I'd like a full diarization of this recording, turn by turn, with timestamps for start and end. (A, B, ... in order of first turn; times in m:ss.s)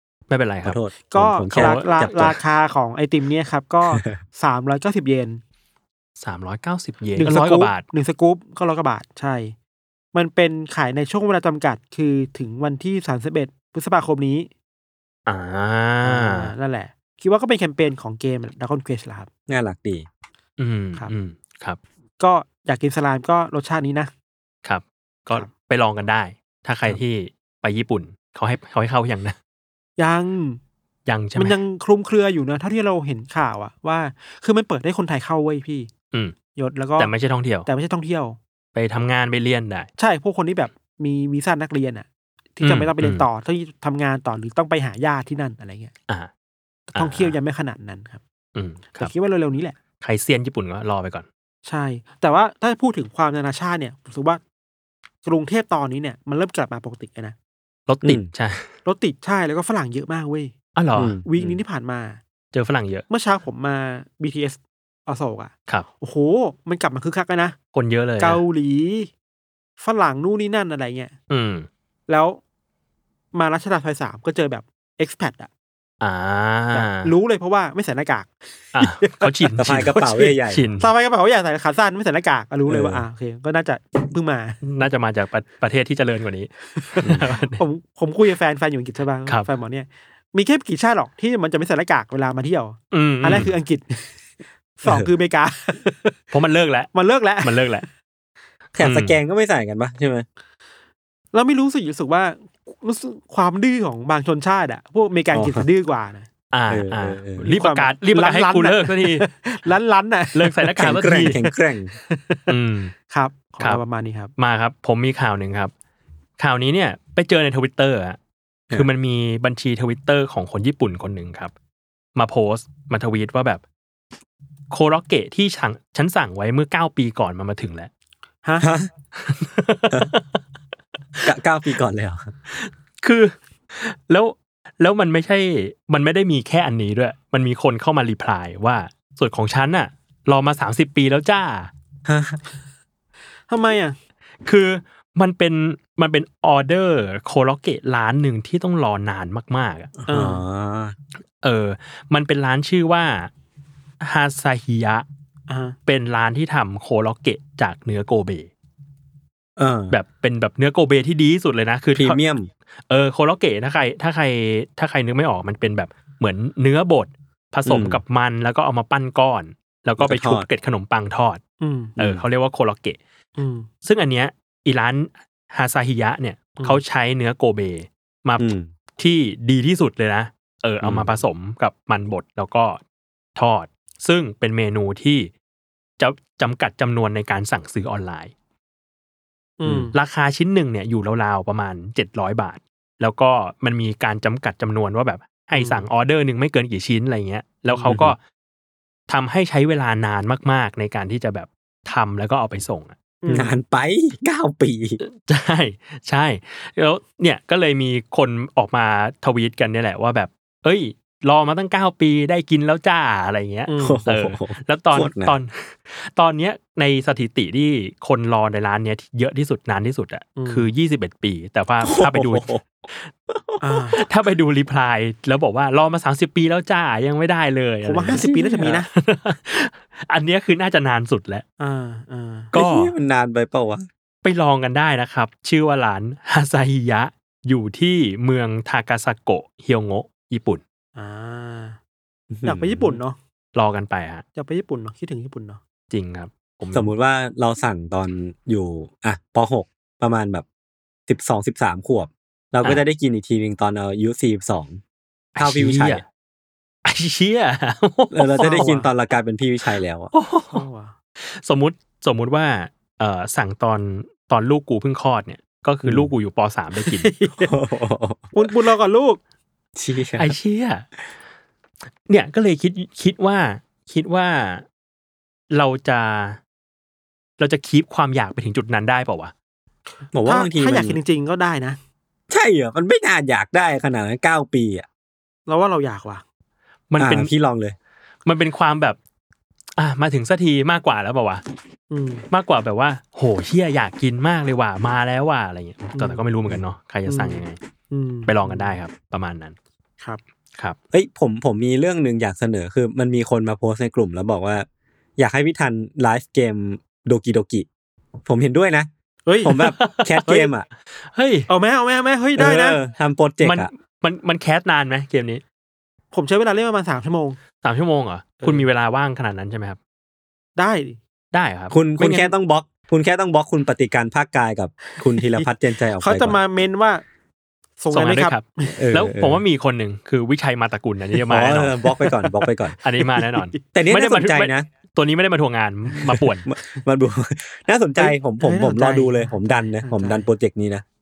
0:00.3-0:00.8 A
0:00.6-0:02.4 B
0:01.1-0:05.4 C
0:01.5-0:02.3 A
0:03.9-0:04.2 B
0:06.2-0:07.8 A
0:07.2-0:09.5 C
0:10.1-0:14.5 C
0:15.3-0:16.5 A
0:16.0-0:19.3 C
0:19.5-0:20.0 B
0:20.6-0:21.8 A
0:22.2-0:24.1 C
0:24.6-0:29.4 A
0:30.0-0:30.6 C
0:31.1-0:31.6 A
0:31.4-0:35.9 C
0:36.5-0:37.1 C
0:37.0-0:37.7 A
0:37.6-0:38.4 C
0:38.7-0:39.9 A
0:40.0-0:45.9 C
0:42.6-0:43.2 A
0:46.9-0:48.2 C
0:46.9-0:47.4 A
0:48.5-0:49.1 A
0:49.0-0:49.8 C
0:50.0-0:51.2 A
0:51.6-0:54.4 C
0:55.2-0:57.4 C
0:57.9-0:58.7 A
0:58.8-1:00.5 C
1:00.8-1:01.2 A
1:01.0-1:01.6 B
1:01.2-1:02.2 C
1:02.5-1:03.0 A
1:03.1-1:07.6 C
1:07.7-1:08.4 A
1:08.2-1:09.1 C
1:09.8-1:11.1 C
1:11.3-1:11.7 A
1:12.1-1:12.4 C
1:13.3-1:15.5 C
1:16.0-1:17.1 A
1:16.7-1:19.5 C
1:18.7-1:20.9 A
1:19.6-1:20.6 B
1:20.8-1:24.6 C
1:22.7-1:23.0 B
1:24.6-1:27.6 A
1:26.8-1:34.1 C
1:32.9-1:33.5 A
1:34.8-1:36.2 C
1:36.3-1:37.8 A
1:36.9-1:37.8 C
1:38.8-1:40.2 B
1:38.8-1:39.2 A
1:41.3-1:46.3 C
1:45.3-1:45.6 B
1:46.5-1:49.2 A
1:46.7-1:47.5 B
1:47.4-1:50.7 C
1:50.3-1:51.4 A
1:50.8-1:51.9 B
1:52.1-1:52.5 C
1:52.5-1:52.9 A
1:53.1-1:54.3 C
1:54.4-1:55.7 A
1:56.4-1:58.2 A
1:58.7-2:01.5 A
2:02.2-2:03.6 A
2:04.7-2:07.9 A
2:08.6-2:08.9 B
2:09.2-2:10.2 A
2:11.2-2:12.3 B
2:12.5-2:21.7 A
2:22.0-2:22.4 B
2:23.5-2:24.0 C
2:24.4-2:29.9 A
2:30.0-2:30.9 B
2:30.1-2:30.4 C
2:31.4-2:33.3 A
2:34.0-2:35.0 A
2:35.5-2:35.8 C
2:35.8-2:38.5 A
2:39.6-2:39.9 B
2:39.9-2:42.2 A
2:41.9-2:42.5 B
2:42.9-2:51.4 A
2:47.6-2:48.0 B
2:50.0-2:50.5 B
2:51.6-2:52.0 C
2:52.0-2:52.2 B
2:52.0-2:53.0 A
2:53.4-2:53.7 C
2:53.8-3:02.8 A
2:58.4-2:58.7 B
3:00.8-3:01.2 B
3:03.4-3:05.3 A
3:06.0-3:08.3 A
3:09.6-3:09.9 C
3:09.9-3:18.2 A
3:15.6-3:15.8 C
3:17.7-3:18.0 C
3:17.9-3:18.1 B
3:19.1-3:23.0 A
3:23.2-3:23.5 C
3:23.3-3:25.0 B
3:25.0-3:43.1 A
3:33.7-3:34.0 C
3:33.8-3:35.3 B
3:40.4-3:40.6 C
3:41.8-3:42.6 B
3:43.3-3:44.1 B
3:43.6-3:44.0 C
3:44.0-3:51.4 A
3:47.8-3:48.9 C
3:48.1-3:48.8 B
3:51.6-3:52.5 C
3:52.5-3:52.9 A
3:52.5-3:53.9 B
3:54.2-4:00.6 A
4:01.0-4:01.8 C
4:02.3-4:03.0 B
4:02.4-4:03.2 C
4:03.5-4:04.2 A
4:04.4-4:05.6 C
4:05.9-4:06.9 A
4:06.7-4:10.4 B
4:11.1-4:14.8 B
4:15.4-4:16.0 A
4:15.4-4:16.0 B
4:16.8-4:18.8 A
4:18.1-4:20.1 B
4:18.4-4:18.8 C
4:20.1-4:20.6 A
4:20.5-4:20.9 C
4:21.2-4:27.1 A
4:25.8-4:26.1 B
4:26.8-4:27.5 C
4:27.4-4:28.3 B
4:28.3-4:29.2 C
4:29.8-4:30.3 B
4:30.2-4:30.8 A
4:32.1-4:34.6 A
4:35.5-4:36.4 A
4:37.4-4:39.3 A
4:40.1-4:41.0 B
4:40.2-4:41.8 C
4:42.3-4:44.8 B
4:45.5-4:46.2 C
4:46.9-4:47.3 A
4:47.0-4:47.8 B
4:48.2-4:49.0 A
4:49.8-4:51.4 A
4:51.9-4:52.2 C
4:52.3-4:57.6 A
4:55.9-4:56.2 C
4:57.1-4:58.8 C
4:58.2-4:59.6 A
5:00.9-5:04.6 B
5:05.2-5:07.6 B
5:08.2-5:08.9 B
5:09.2-5:09.6 C
5:09.4-5:10.6 B
5:09.6-5:10.5 A
5:11.1-5:11.5 A
5:11.5-5:12.8 C
5:12.4-5:13.7 B
5:13.4-5:15.4 A
5:16.1-5:17.4 C
5:17.6-5:19.8 A
5:18.4-5:18.6 C
5:20.6-5:21.0 C
5:21.3-5:22.3 A
5:21.7-5:26.4 B
5:26.0-5:27.0 C
5:27.8-5:28.8 C
5:27.9-5:31.8 A
5:28.8-5:29.4 B
5:31.2-5:32.8 B
5:32.8-5:36.4 A
5:33.2-5:33.6 C
5:33.7-5:34.6 B
5:36.0-5:40.8 B
5:38.0-5:40.3 C